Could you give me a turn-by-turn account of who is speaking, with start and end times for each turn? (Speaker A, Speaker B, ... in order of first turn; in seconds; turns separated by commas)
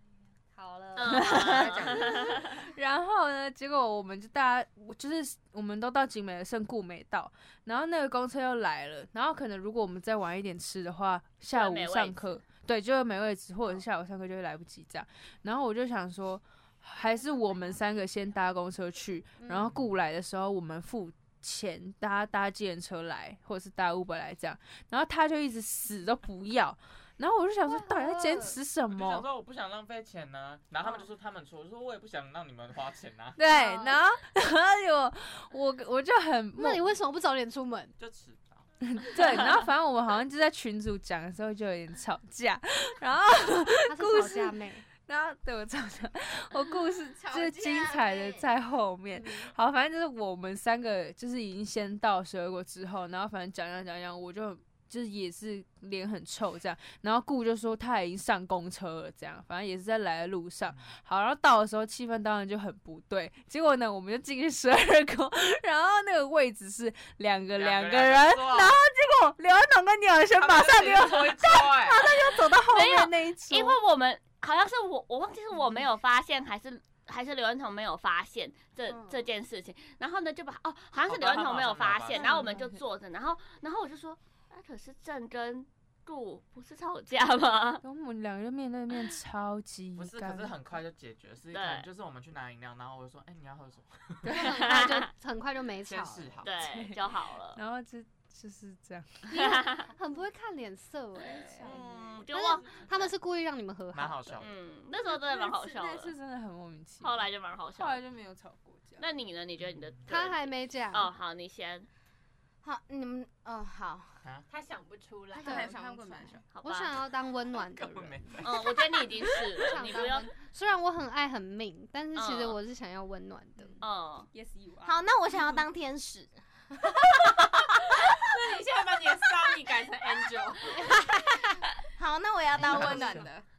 Speaker A: 0.6-1.6, Speaker B: 1.0-2.5, Speaker C: 1.1-29.3, Speaker D: 1.4-2.5, Speaker B: 11.5-12.4, Speaker A: 19.4-19.7, Speaker D: 19.5-19.9, Speaker A: 27.6-28.6, Speaker D: 28.9-33.4, Speaker C: 33.4-37.0, Speaker A: 33.5-34.0, Speaker A: 36.5-37.9, Speaker D: 38.0-38.7, Speaker C: 38.8-73.8, Speaker A: 43.9-44.9, Speaker E: 47.2-48.5, Speaker A: 49.1-49.5, Speaker D: 60.7-60.9, Speaker D: 67.6-68.8, Speaker D: 70.3-72.2, Speaker B: 72.7-87.8, Speaker D: 81.1-82.4, Speaker C: 82.1-82.8, Speaker C: 87.8-90.6, Speaker D: 90.0-94.3, Speaker B: 91.5-91.9, Speaker C: 94.2-94.7, Speaker A: 94.3-96.5, Speaker B: 94.4-95.1, Speaker D: 95.9-96.6, Speaker B: 96.4-97.6, Speaker C: 96.6-99.6, Speaker B: 99.3-99.9, Speaker A: 99.3-101.7, Speaker C: 101.2-102.2, Speaker B: 101.6-103.1, Speaker A: 102.3-104.4, Speaker D: 103.9-104.5, Speaker B: 104.4-106.1, Speaker C: 105.0-109.1, Speaker B: 107.0-108.0, Speaker B: 109.0-111.9, Speaker D: 109.6-110.0, Speaker A: 110.1-111.1, Speaker E: 112.6-114.2, Speaker F: 114.5-115.8, Speaker C: 115.4-116.4, Speaker E: 115.4-116.4, Speaker B: 116.5-117.0, Speaker A: 116.6-118.4, Speaker D: 117.6-118.8, Speaker B: 118.4-120.3, Speaker A: 119.4-123.8, Speaker B: 122.1-122.6, Speaker C: 123.6-125.0, Speaker B: 123.8-124.3, Speaker E: 124.8-128.3, Speaker F: 127.1-127.6, Speaker F: 128.2-130.9, Speaker E: 130.8-131.4, Speaker E: 132.0-133.4, Speaker D: 132.5-133.3